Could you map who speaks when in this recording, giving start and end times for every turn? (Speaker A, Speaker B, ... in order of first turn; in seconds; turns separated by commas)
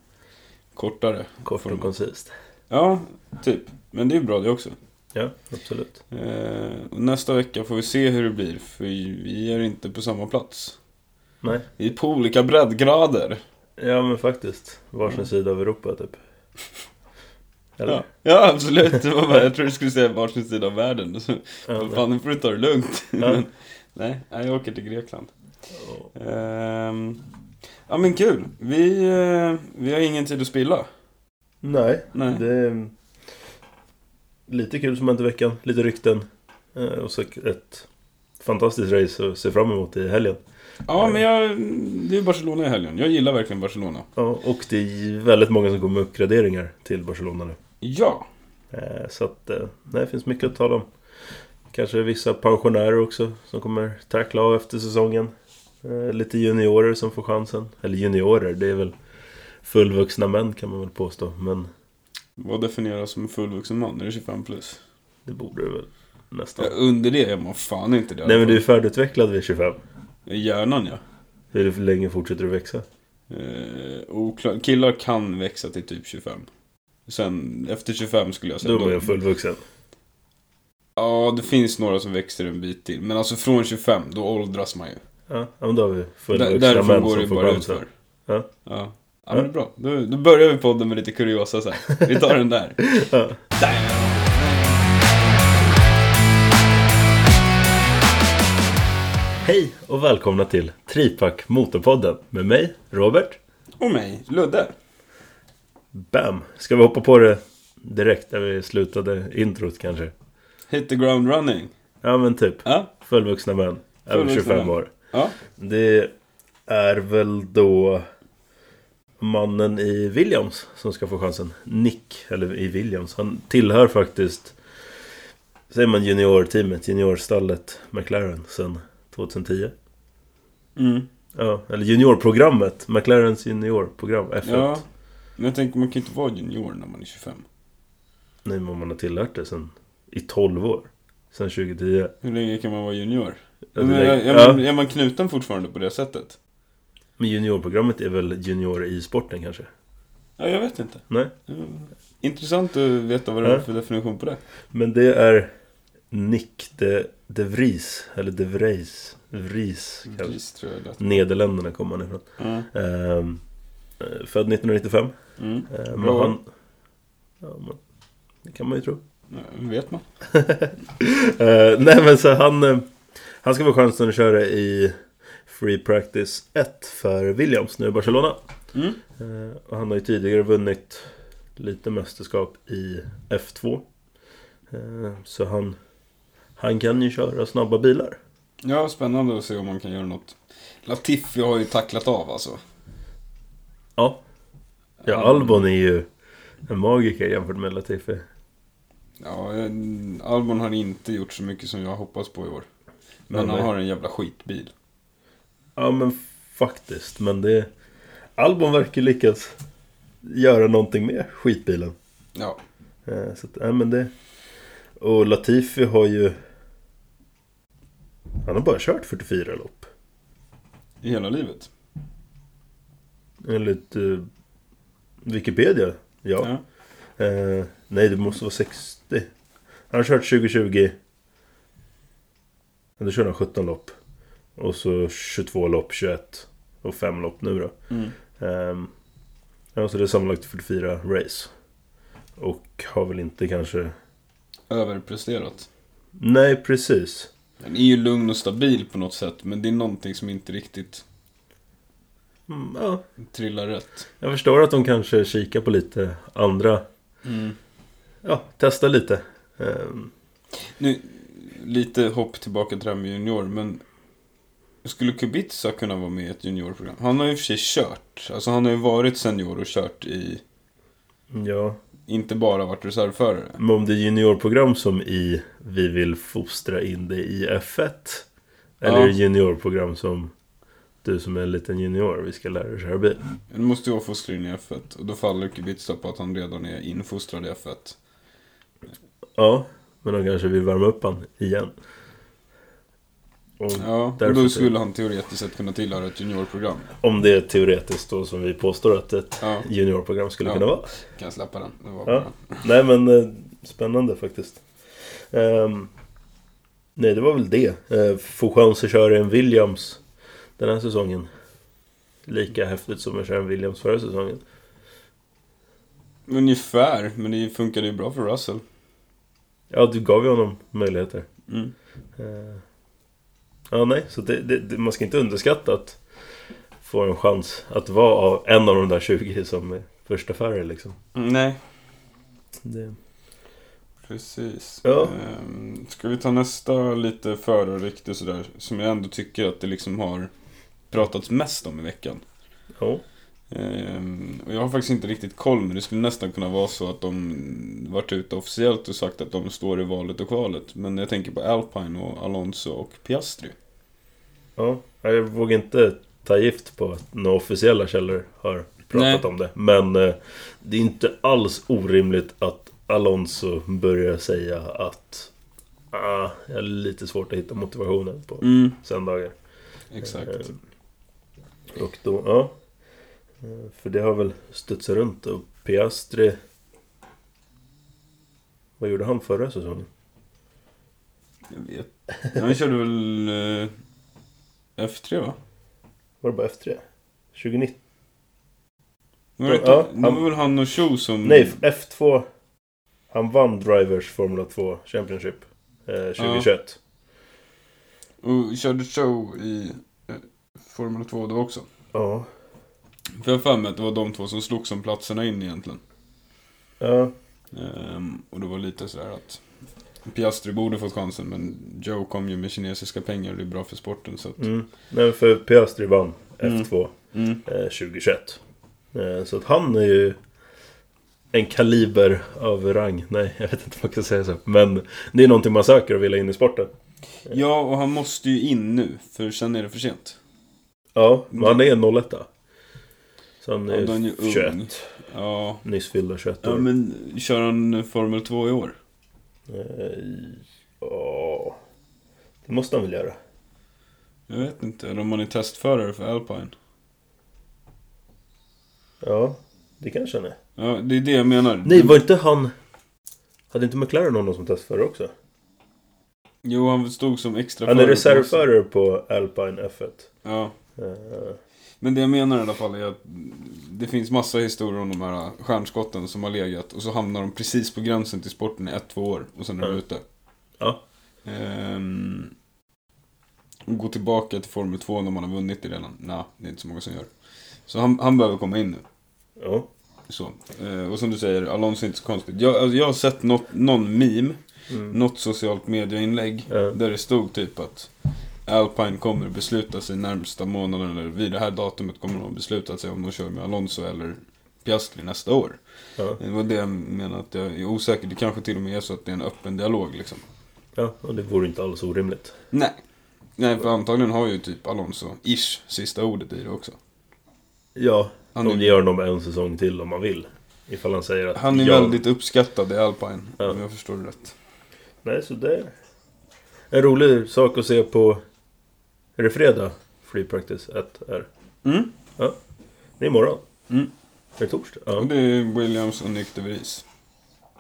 Speaker A: 0.7-1.9, Speaker B: 1.4-2.3, Speaker A: 2.7-4.7, Speaker B: 5.1-6.0, Speaker A: 6.1-10.8, Speaker A: 11.8-13.4, Speaker B: 13.8-16.2, Speaker B: 17.8-18.0, Speaker A: 17.8-25.3, Speaker B: 21.7-22.0, Speaker B: 25.8-26.1, Speaker A: 26.1-27.2, Speaker A: 27.9-30.9, Speaker B: 31.6-32.9, Speaker A: 32.1-32.4, Speaker B: 34.5-37.9, Speaker B: 38.4-40.4, Speaker A: 40.9-44.1, Speaker B: 44.1-47.6, Speaker A: 47.8-48.2, Speaker B: 48.7-50.9, Speaker B: 51.7-55.3, Speaker B: 55.8-58.9, Speaker B: 59.6-61.7, Speaker A: 62.4-64.8, Speaker B: 65.2-66.7, Speaker A: 66.6-68.6, Speaker B: 68.2-69.8, Speaker A: 70.3-71.0, Speaker B: 71.5-72.8, Speaker A: 73.3-76.5, Speaker A: 77.1-79.1, Speaker B: 78.6-79.6, Speaker A: 81.0-85.0, Speaker B: 85.3-88.5, Speaker A: 86.3-87.9, Speaker A: 88.6-93.0, Speaker B: 92.9-93.4, Speaker A: 93.5-94.9, Speaker B: 99.4-103.4, Speaker A: 103.8-104.7, Speaker B: 105.9-110.1, Speaker A: 110.7-111.7, Speaker B: 112.0-114.9, Speaker A: 114.1-115.3, Speaker B: 115.5-116.1, Speaker B: 116.7-118.1, Speaker B: 119.2-124.6, Speaker B: 125.7-129.7, Speaker A: 130.8-131.1, Speaker B: 131.3-134.8, Speaker A: 134.4-134.8, Speaker A: 135.4-137.4, Speaker B: 138.4-142.1, Speaker A: 142.2-146.4, Speaker B: 143.7-144.6, Speaker B: 147.2-149.7, Speaker A: 150.4-154.4, Speaker B: 154.7-155.5, Speaker B: 156.1-160.3, Speaker A: 160.1-161.0, Speaker B: 161.0-163.4, Speaker A: 162.4-162.7, Speaker B: 164.0-165.1, Speaker A: 165.4-166.4, Speaker B: 165.7-166.5, Speaker B: 167.4-167.8, Speaker B: 168.4-169.0, Speaker A: 169.3-170.1, Speaker B: 170.2-174.9, Speaker B: 175.4-178.4, Speaker A: 178.7-179.0, Speaker B: 179.2-183.8, Speaker B: 184.7-185.8, Speaker B: 186.6-188.2, Speaker A: 188.6-192.6, Speaker B: 194.0-194.2, Speaker A: 195.0-195.6, Speaker B: 195.1-196.1, Speaker B: 196.7-198.2, Speaker A: 199.2-202.7, Speaker A: 203.3-204.7, Speaker B: 203.3-203.7, Speaker B: 205.8-207.7, Speaker B: 208.4-209.5, Speaker B: 210.2-211.9, Speaker B: 213.1-214.1, Speaker B: 215.0-216.3, Speaker B: 218.4-219.9, Speaker A: 221.0-221.7, Speaker B: 223.4-224.2, Speaker B: 225.2-226.5, Speaker B: 227.2-229.3, Speaker B: 229.9-231.0, Speaker B: 233.0-234.0, Speaker B: 234.6-237.7, Speaker B: 238.4-238.9, Speaker B: 239.7-241.5, Speaker B: 242.4-243.9, Speaker A: 244.7-245.7, Speaker B: 246.2-247.3, Speaker A: 247.6-251.0, Speaker B: 252.5-253.0, Speaker A: 253.2-254.1, Speaker B: 254.2-256.8, Speaker A: 257.2-257.6, Speaker B: 258.2-260.1, Speaker A: 260.8-263.8, Speaker A: 264.8-270.4, Speaker B: 271.3-271.8, Speaker A: 272.1-273.6, Speaker B: 273.6-278.2, Speaker B: 278.8-280.3, Speaker A: 278.8-279.1, Speaker B: 281.0-283.2, Speaker A: 283.5-288.0, Speaker B: 289.4-291.7, Speaker B: 293.6-294.7, Speaker A: 293.7-296.9, Speaker B: 297.0-300.9, Speaker A: 299.4-299.6, Speaker A: 300.4-302.6, Speaker B: 302.1-305.9, Speaker B: 306.9-310.0, Speaker B: 310.6-311.3, Speaker B: 312.2-314.4, Speaker A: 316.3-318.6, Speaker B: 319.7-321.3, Speaker A: 321.5-321.7, Speaker B: 322.1-322.6, Speaker B: 323.7-326.0, Speaker B: 326.8-331.0, Speaker A: 331.1-331.6, Speaker B: 332.6-333.0, Speaker A: 334.1-340.3, Speaker B: 334.8-335.1, Speaker A: 340.9-342.2, Speaker B: 342.8-343.0, Speaker A: 343.5-353.5, Speaker B: 354.6-365.3, Speaker A: 358.9-359.2, Speaker B: 365.9-369.4, Speaker A: 368.4-368.8, Speaker A: 369.9-370.5, Speaker B: 370.0-370.6, Speaker B: 371.7-372.5, Speaker B: 373.4-376.4, Speaker B: 378.8-379.9, Speaker A: 381.5-383.7, Speaker A: 384.8-385.4, Speaker B: 386.2-387.8, Speaker A: 389.4-391.6, Speaker B: 389.4-390.2, Speaker B: 391.2-392.2, Speaker B: 393.1-396.8, Speaker A: 396.2-396.5, Speaker A: 398.2-401.6, Speaker B: 401.9-402.3, Speaker A: 403.1-405.8, Speaker B: 406.8-407.1, Speaker A: 407.5-409.4, Speaker A: 410.0-414.5, Speaker B: 414.4-418.4, Speaker A: 416.4-417.4, Speaker B: 418.9-420.2, Speaker B: 421.3-426.7, Speaker A: 427.3-430.2, Speaker B: 430.9-432.3, Speaker A: 431.3-431.6, Speaker B: 433.4-434.9, Speaker A: 433.7-435.6, Speaker B: 435.6-436.6, Speaker A: 436.4-438.8, Speaker B: 439.5-441.6, Speaker B: 442.4-443.2, Speaker A: 444.3-446.5, Speaker B: 449.0-450.4, Speaker A: 450.6-452.0, Speaker B: 451.6-452.5, Speaker B: 453.5-455.1, Speaker A: 456.4-458.4, Speaker B: 457.6-460.1, Speaker A: 460.2-460.5, Speaker B: 460.8-461.4, Speaker A: 461.8-470.0, Speaker A: 471.2-472.3, Speaker A: 473.7-477.1, Speaker A: 477.7-478.8, Speaker B: 479.4-479.7, Speaker A: 480.1-487.9, Speaker B: 484.7-484.9, Speaker B: 486.5-486.7, Speaker A: 488.4-495.6, Speaker A: 496.1-500.2, Speaker B: 500.8-502.3, Speaker A: 502.5-502.8, Speaker A: 503.4-506.8, Speaker B: 507.7-512.0, Speaker A: 508.3-508.8, Speaker A: 511.3-514.3, Speaker B: 515.0-515.7, Speaker B: 516.7-518.2, Speaker B: 519.2-521.3, Speaker A: 521.6-521.9, Speaker B: 523.0-523.4, Speaker B: 524.4-525.1, Speaker A: 525.0-526.8